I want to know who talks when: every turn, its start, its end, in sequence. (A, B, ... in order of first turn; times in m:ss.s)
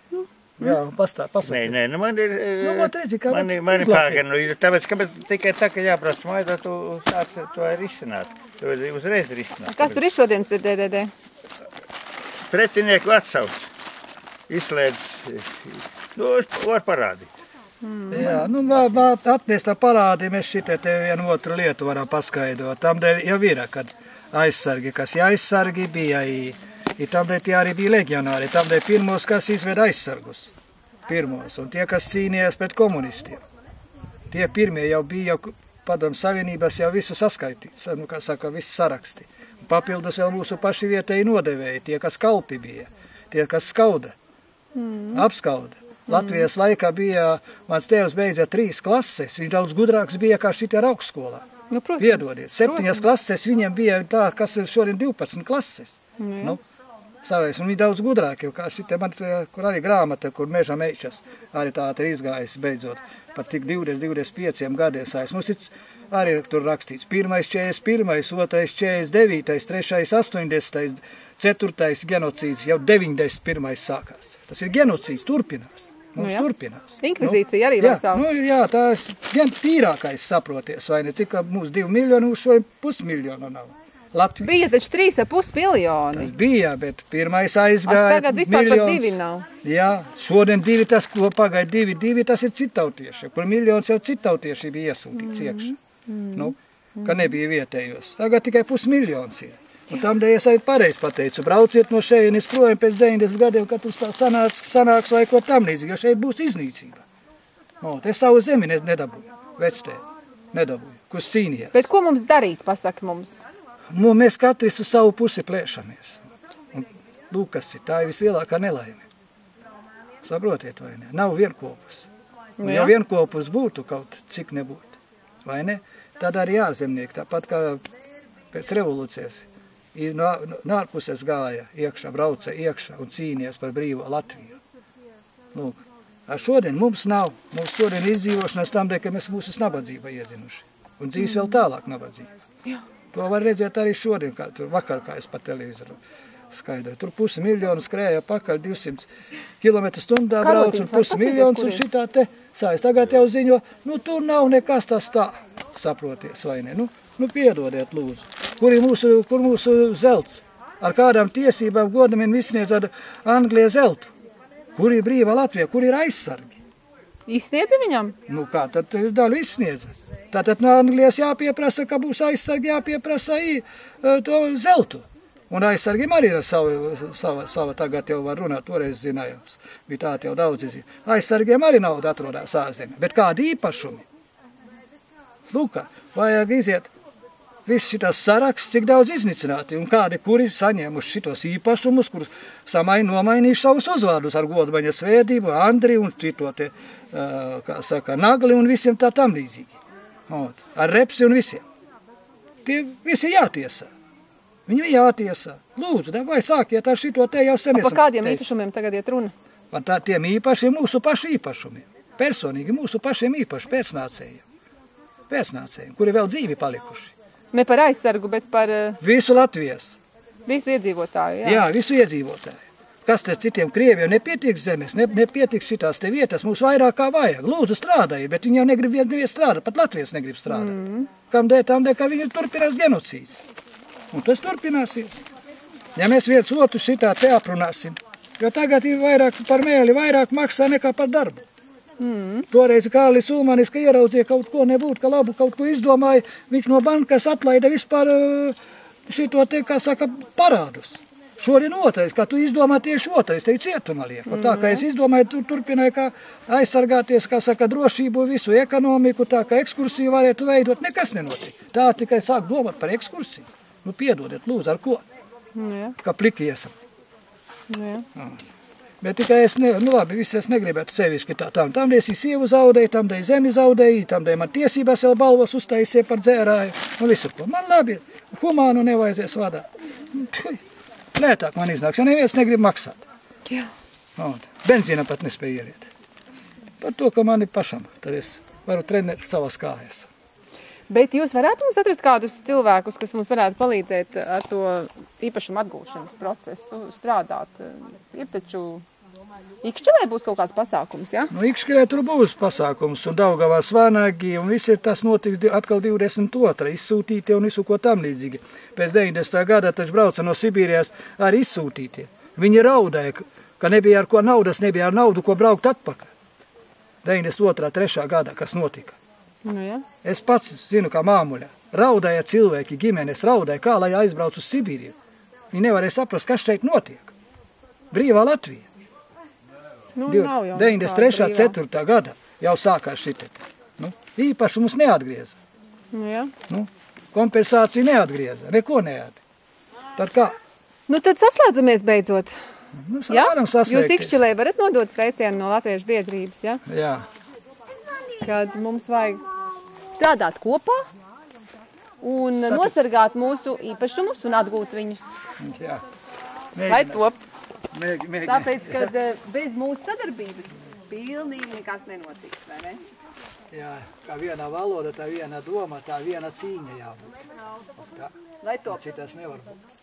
0:00.1-0:00.8 A
0:00.6-0:01.8 B
0:01.4-0:10.0 C
0:02.6-0:04.2 B
0:09.7-0:11.1 A
0:12.5-0:13.6 C
0:14.5-0:17.3 C
0:17.8-0:18.5 A
0:18.1-0:30.5 B
0:31.1-0:33.4 B
0:34.3-0:44.1 B
0:44.7-0:45.2 A
0:45.1-0:51.4 B
0:46.1-0:46.4 A
0:51.7-0:53.0 A
0:52.0-0:56.6 B
0:56.2-0:56.6 A
0:57.2-1:24.6 B
1:16.2-1:16.5 A
1:17.0-1:18.2 A
1:24.4-1:26.4 A
1:26.1-1:35.8 B
1:27.8-1:29.5 A
1:35.2-1:37.2 A
1:36.3-1:47.0 B
1:47.8-1:51.8 B
1:51.7-1:53.4 A
1:53.9-1:59.0 B
2:00.2-2:02.1 B
2:02.6-2:02.9 A
2:02.6-2:07.8 B
2:08.5-2:14.6 B
2:15.5-2:22.3 B
2:23.1-2:26.0 B
2:26.5-2:29.1 B
2:29.6-2:44.1 B
2:30.4-2:31.8 A
2:44.8-2:46.6 B
2:47.3-2:48.2 A
2:48.3-3:04.0 B
3:05.5-3:06.9 B
3:07.6-3:19.8 B
3:20.3-3:21.6 B
3:22.6-3:23.9 B
3:24.7-3:28.5 B
3:27.7-3:29.3 A
3:29.7-3:34.4 B
3:35.3-3:37.1 B
3:37.5-3:39.0 A
3:39.0-3:40.0 B
3:40.5-3:41.6 A
3:41.4-3:53.4 B
3:50.5-3:51.1 A
3:54.1-3:55.2 B
3:55.9-4:01.4 B
4:02.0-4:02.5 A
4:02.5-4:25.0 B
4:14.3-4:14.8 A
4:25.5-4:26.0 A
4:26.0-4:26.7 B
4:27.7-4:28.0 A
4:28.1-4:28.4 B
4:29.0-4:40.6 B
4:41.2-4:43.0 B
4:44.2-4:45.9 B
4:46.8-4:50.1 B
4:50.9-4:58.8 A
4:59.6-5:01.3 A
5:01.3-5:16.1 B
5:17.0-5:19.0 B
5:19.4-5:19.8 A
5:20.0-5:25.0 B
5:25.5-5:27.1 B
5:27.9-5:28.7 B
5:30.0-5:31.5 A
5:30.1-5:35.4 B
5:35.9-5:36.3 A
5:36.5-5:39.2 B
5:40.0-5:40.4 B
5:40.9-5:42.3 A
5:42.7-5:44.2 B
5:43.1-5:46.6 A
5:46.6-5:47.0 B
5:48.2-5:49.2 A
5:50.0-5:50.8 A
5:52.0-5:55.1 A
5:52.4-5:52.8 B
5:55.4-5:55.8 B
5:56.5-5:57.1 B
5:56.7-5:57.2 A
5:57.7-5:58.9 B
5:58.2-6:02.8 A
6:03.5-6:07.2 B
6:07.8-6:08.1 B
6:08.4-6:08.8 A
6:08.6-6:09.6 B